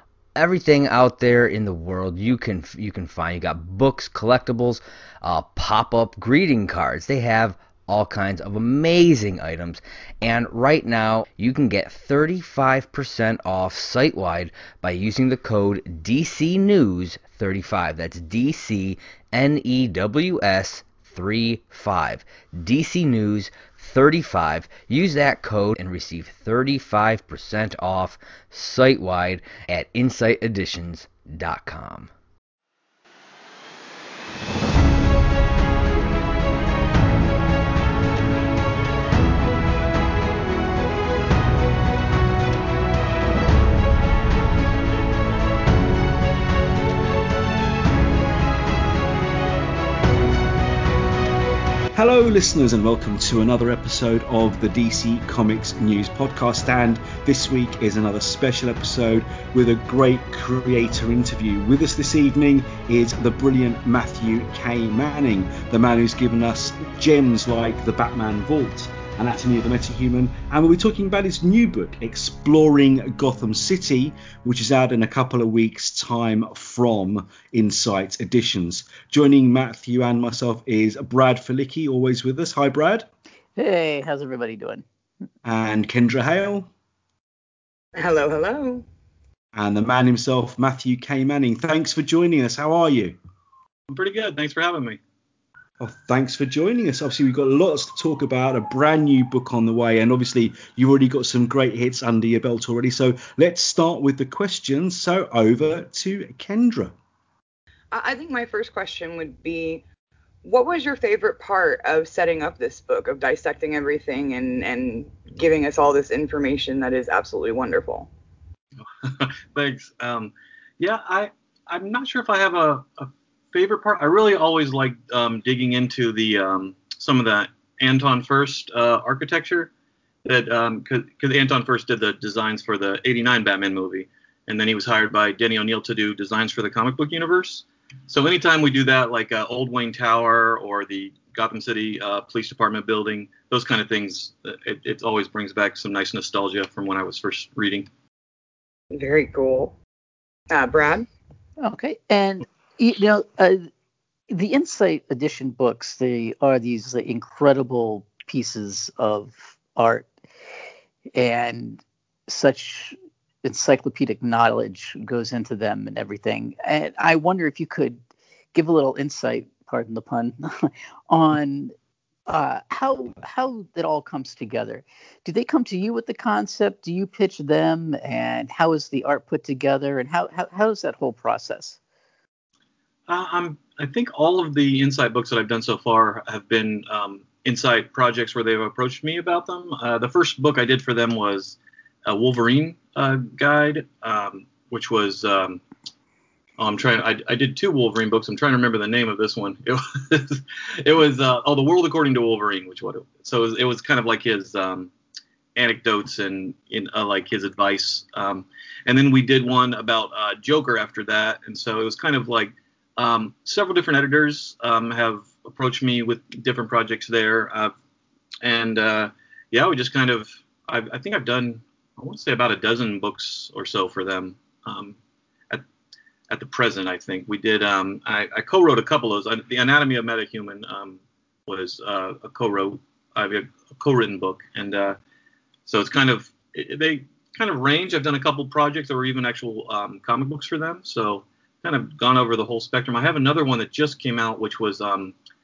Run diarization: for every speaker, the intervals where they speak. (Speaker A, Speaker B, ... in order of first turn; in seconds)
Speaker A: 0.4-32.1
Speaker B: 51.9-83.1, 85.4-86.7, 89.5-93.2, 95.8-107.0
Speaker C: 83.6-84.8, 151.6-153.7, 154.3-160.1, 161.2-168.0, 168.5-171.7, 172.3-181.8
Speaker D: 88.0-88.9, 107.9-109.8, 110.4-118.1, 148.9-149.8, 150.5-151.1
Speaker E: 93.9-95.0, 119.0-129.7, 130.2-147.9, 183.1-195.6, 196.6-204.9, 205.6-217.7, 218.4-225.0, 226.3-235.0, 235.7-245.1